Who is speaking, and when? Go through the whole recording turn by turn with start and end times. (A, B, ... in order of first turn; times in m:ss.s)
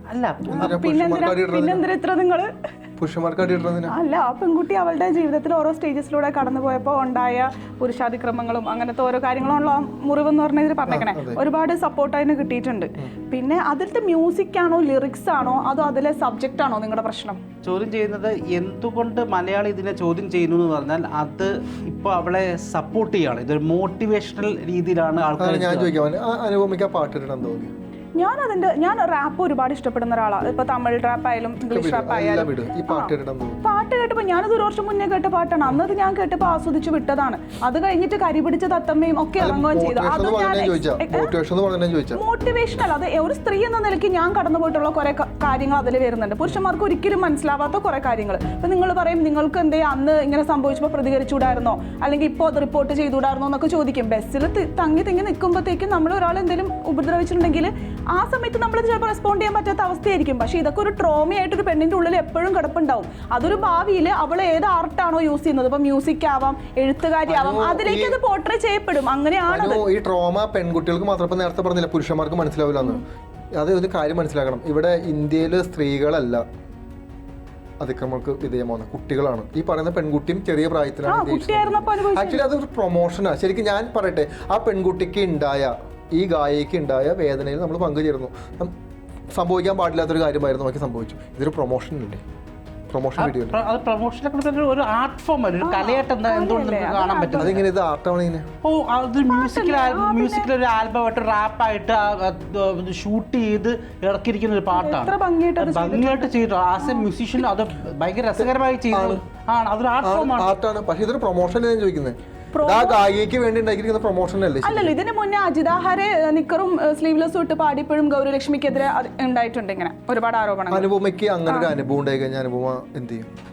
0:00.1-0:00.8 A
0:00.5-0:01.8 B
0:00.6-0:02.5 C
0:03.0-0:03.9 B
0:03.9-0:17.4 C
0:10.9-0:11.4 B
0:17.6-0:25.9 A
0:25.4-0:27.7 B
0:28.2-0:33.1 C
0:31.7-0:33.6 B
0:33.6-0:41.3 C
0:39.4-0:42.2 B
0:42.2-1:09.8 C
1:07.2-1:08.2 B
1:09.5-1:13.0 B
1:13.6-1:16.4 B
1:17.8-1:28.7 B
1:21.1-1:22.4 C
1:29.3-1:32.2 B
1:32.9-1:33.6 B
1:33.2-1:37.6 A
1:35.6-1:37.6 C
1:37.4-1:38.4 B
1:38.6-1:50.5 A
1:39.3-1:40.5 C
1:44.7-1:46.2 C
1:46.8-1:47.1 C
1:48.4-1:49.2 B
1:50.0-1:54.9 B
1:52.5-1:53.1 C
1:54.6-2:00.9 C
2:00.7-2:03.2 B